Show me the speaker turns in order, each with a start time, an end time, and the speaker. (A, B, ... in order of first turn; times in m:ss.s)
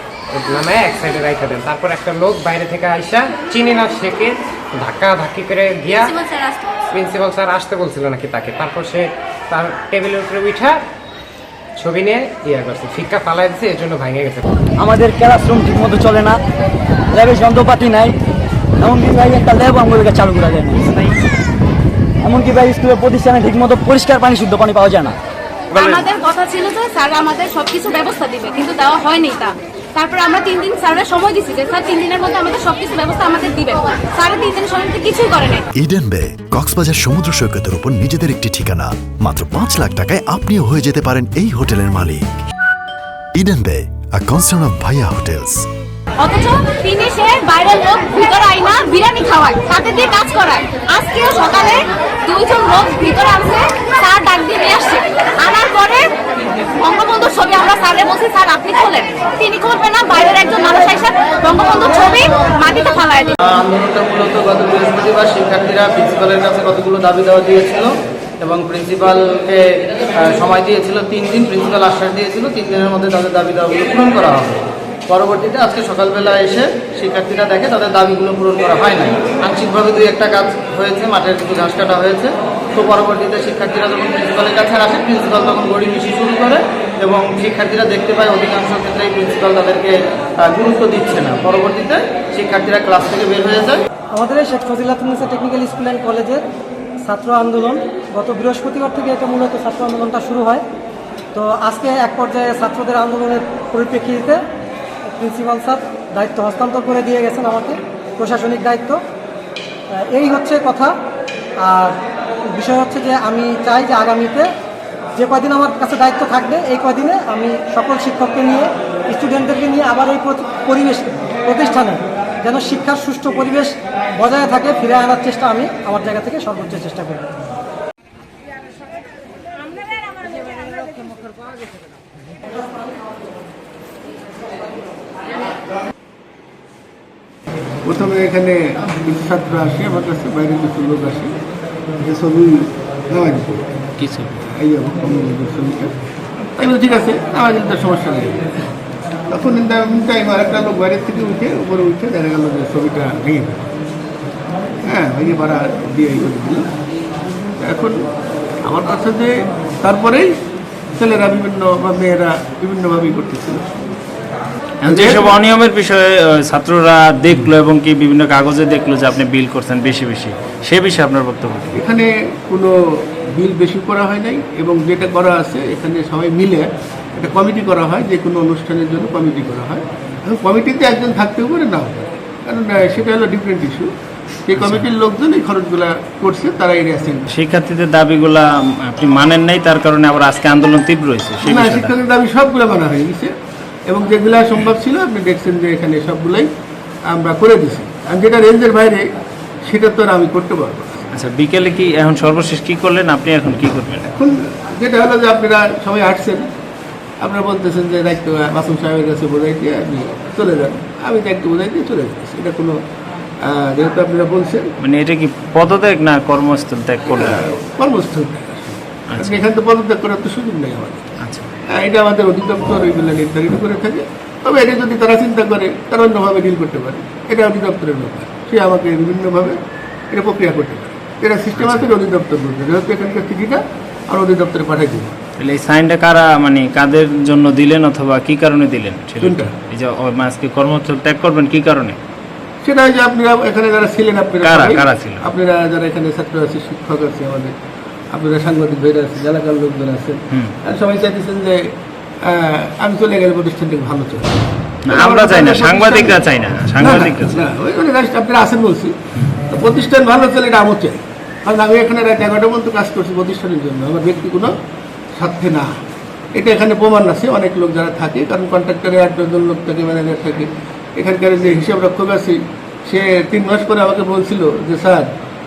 0:00.3-0:06.2 A
0:06.3-0:06.6 B
0:06.9-0:10.8 A
0:11.8-0:14.5 A
0:14.8-0:16.4 C
0:17.2-0:18.1 C
0:18.8-0:20.9 C
0:22.3-0:25.1 C
0:25.7-0:35.6 B
0:25.7-0:26.0 D
0:35.8-0:42.3 E
0:43.3-0:45.7 E
0:46.2-0:56.1 B
0:56.7-1:03.3 B
1:03.5-1:09.6 F
1:10.2-1:33.8 F
1:34.1-1:36.4 G
1:37.0-1:40.6 G
1:41.3-1:44.4 G
1:45.1-1:49.0 G
1:50.0-1:51.0 G
1:51.6-1:52.0 G
1:52.5-1:54.5 G
1:55.2-2:07.3 G
2:17.8-2:21.3 H
2:22.0-2:23.6 H
2:24.0-2:24.5 D
2:24.5-2:25.9 H
2:26.6-2:28.4 H
2:29.3-2:33.7 H
2:34.9-2:36.6 H
2:37.6-2:38.0 H
2:38.6-2:40.3 H
2:41.0-2:43.7 H
2:44.8-2:51.8 D
2:44.9-2:45.4 H
2:51.7-3:03.9 H
3:04.5-3:07.3 H
3:04.6-3:04.9 D
3:07.3-3:11.9 D
3:11.4-3:13.3 H
3:13.9-3:16.5 H
3:17.1-3:19.0 H
3:19.7-3:21.1 H
3:21.1-3:24.1 D
3:24.1-3:26.4 H
3:27.2-3:32.8 H
3:33.4-3:34.7 H
3:34.8-3:37.4 D
3:37.1-3:41.1 H
3:39.1-3:39.4 D
3:41.7-3:49.6 H
3:50.1-3:55.1 H
3:51.6-3:51.9 D
3:55.4-4:02.0 D
3:59.2-3:59.5 H
4:02.6-4:07.6 H
4:04.4-4:05.2 D
4:08.1-4:16.2 H
4:14.9-4:17.5 D
4:16.8-4:19.0 H
4:19.5-4:24.5 H
4:25.2-4:25.7 H
4:26.4-4:35.1 H